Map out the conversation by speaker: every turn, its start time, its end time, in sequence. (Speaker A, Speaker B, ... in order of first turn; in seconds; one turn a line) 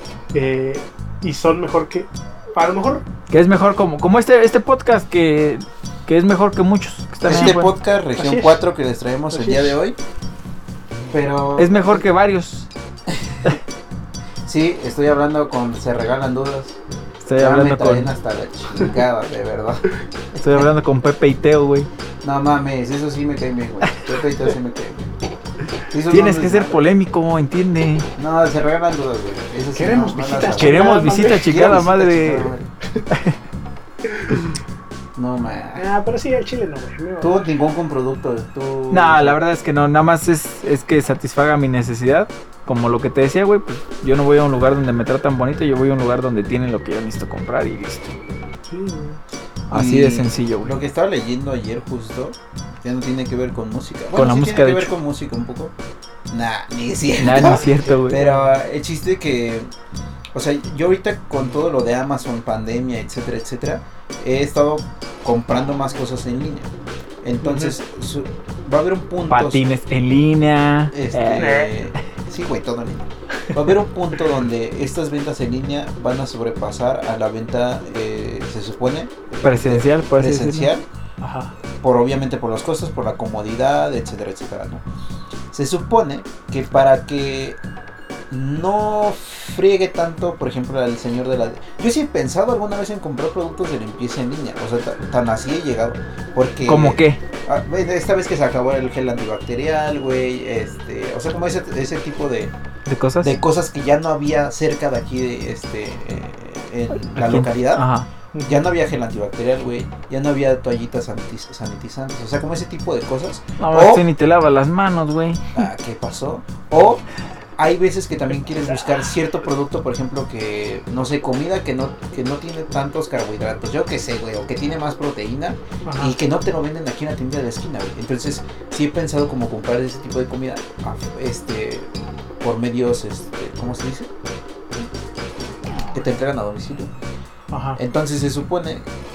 Speaker A: 0.3-3.0
Speaker B: 3.3-7.7
Speaker C: 7.2-10.0
Speaker A: 7.3-7.6
Speaker A: 8.2-8.6
Speaker A: 9.3-9.8
Speaker C: 11.1-12.0
Speaker B: 11.6-12.7
Speaker C: 13.1-13.6
Speaker C: 14.4-16.8
Speaker B: 17.2-18.1
Speaker C: 17.4-20.6
Speaker B: 20.4-21.9
Speaker C: 22.2-25.1
Speaker C: 25.9-26.8
Speaker B: 26.1-28.1
Speaker C: 28.1-32.7
Speaker A: 29.7-31.5
Speaker B: 30.5-32.5
Speaker B: 33.1-33.4
Speaker C: 35.1-35.8
Speaker A: 35.8-37.4
Speaker C: 37.2-39.4
Speaker B: 38.9-48.2
Speaker A: 48.7-49.2
Speaker C: 49.7-55.7
Speaker B: 49.7-50.7
Speaker B: 54.1-54.9
Speaker C: 56.3-59.7
Speaker B: 57.2-58.2
Speaker A: 57.6-58.5
Speaker C: 60.3-66.7
Speaker C: 67.2-69.6
Speaker A: 67.4-67.7
Speaker B: 69.3-71.6
Speaker C: 70.9-80.8
Speaker A: 71.3-71.7
Speaker B: 79.4-80.7
Speaker A: 81.2-81.5
Speaker C: 81.8-84.8
Speaker C: 85.5-87.6
Speaker C: 88.3-102.5
Speaker B: 96.6-97.2
Speaker B: 102.8-103.3
Speaker C: 103.2-107.9
Speaker B: 107.1-108.1
Speaker A: 108.3-108.6
Speaker C: 108.4-114.0
Speaker B: 113.6-115.6
Speaker C: 115.5-117.0
Speaker C: 117.6-134.1
Speaker A: 125.8-126.1
Speaker C: 135.9-136.9
Speaker A: 137.5-137.8
Speaker C: 137.8-138.9